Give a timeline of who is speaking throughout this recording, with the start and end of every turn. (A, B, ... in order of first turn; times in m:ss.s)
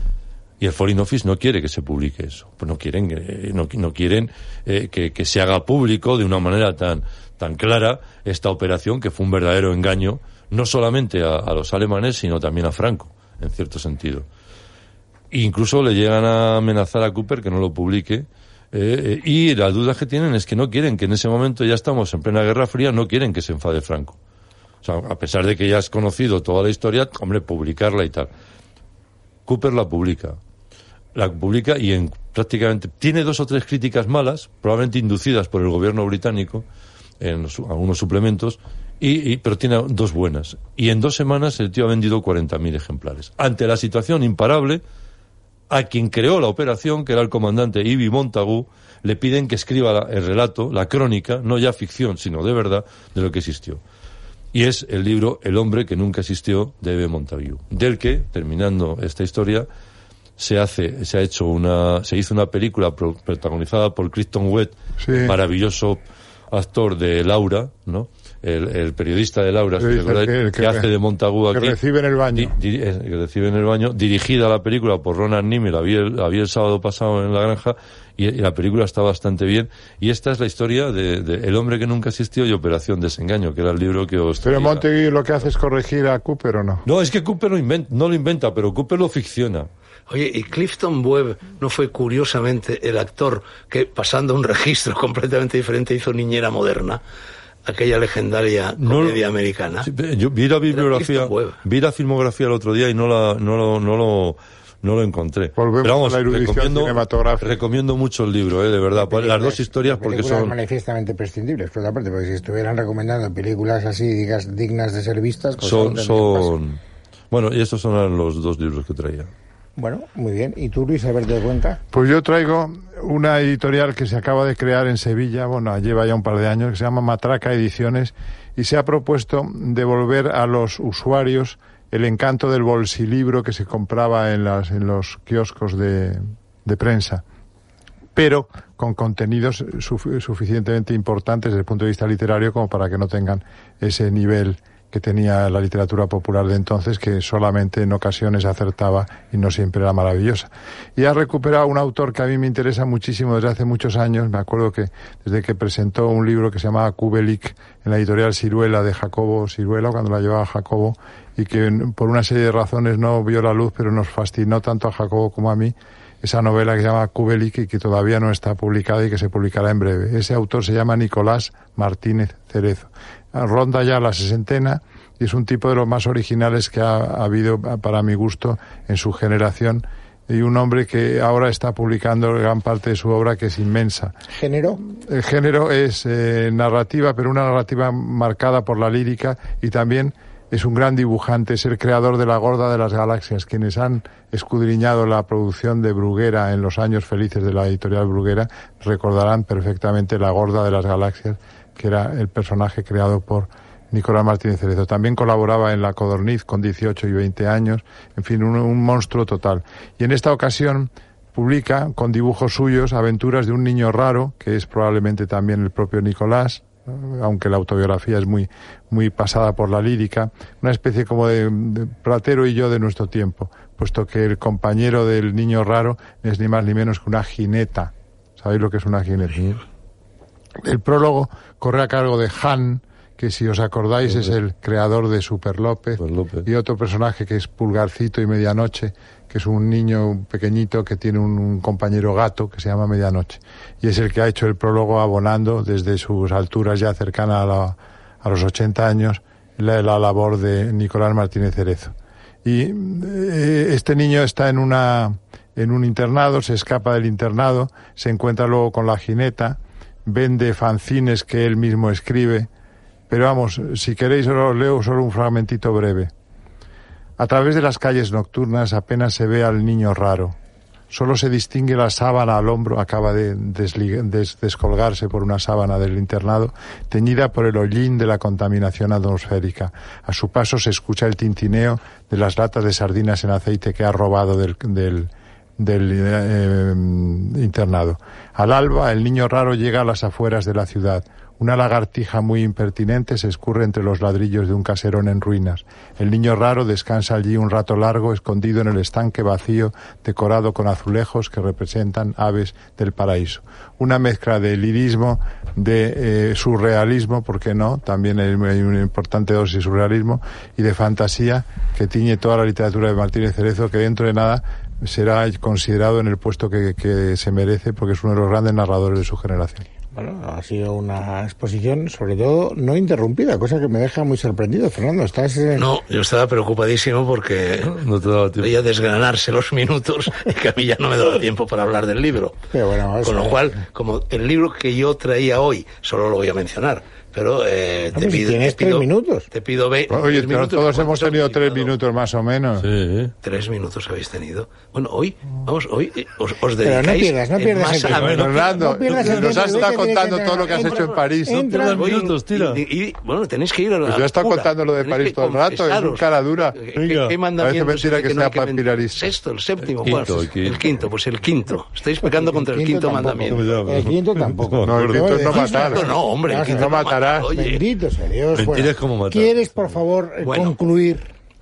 0:00.6-0:14.3 A
0:15.3-0:24.2 A
0:24.8-0:28.3 A
0:29.5-0:30.4 A
0:31.2-0:36.6 A
0:37.2-0:44.8 A
0:45.7-0:53.8 A
0:54.5-0:59.7 A
1:00.4-1:11.8 A
1:05.0-1:05.4 B
1:09.8-1:10.9 B
1:11.5-1:12.6 B
1:12.3-1:24.9 A
1:24.4-1:26.8 B
1:26.9-1:29.7 A
1:30.1-1:37.0 C
1:37.6-1:39.9 C
1:38.8-1:39.2 A
1:39.8-1:50.6 A
1:40.7-1:41.6 C
1:45.6-1:47.6 B
1:48.9-1:56.5 D
1:55.6-1:56.8 A
1:57.3-1:59.3 A
1:59.8-2:01.8 D
2:01.9-2:17.2 B
2:18.2-3:04.2 B
3:04.3-3:04.8 D
3:04.8-3:49.6 B
3:50.6-4:22.5 B
3:54.1-3:54.4 A
3:56.0-3:56.5 A
4:23.1-4:26.1 B
4:27.2-4:30.4 B
4:30.9-5:19.6 B
5:20.0-5:25.7 D
5:25.6-5:27.8 C
5:27.6-5:28.5 A
5:28.4-5:32.4 C
5:32.5-5:33.5 D
5:33.0-5:41.7 C
5:37.9-5:39.3 D
5:39.9-5:42.7 B
5:42.6-5:43.1 A
5:43.2-5:48.5 C
5:46.6-5:51.9 D
5:47.9-5:49.6 A
5:48.1-5:51.7 B
5:50.5-5:51.0 C
5:51.5-5:52.6 A
5:51.8-6:03.4 C
5:53.8-5:56.6 B
5:56.8-5:57.2 A
5:57.4-5:59.1 B
5:59.8-6:00.6 A
6:02.0-6:11.1 D
6:03.3-6:05.2 A
6:04.6-6:05.8 B
6:05.3-6:07.6 C
6:06.5-6:07.4 B
6:08.3-6:09.7 A
6:10.2-6:10.6 C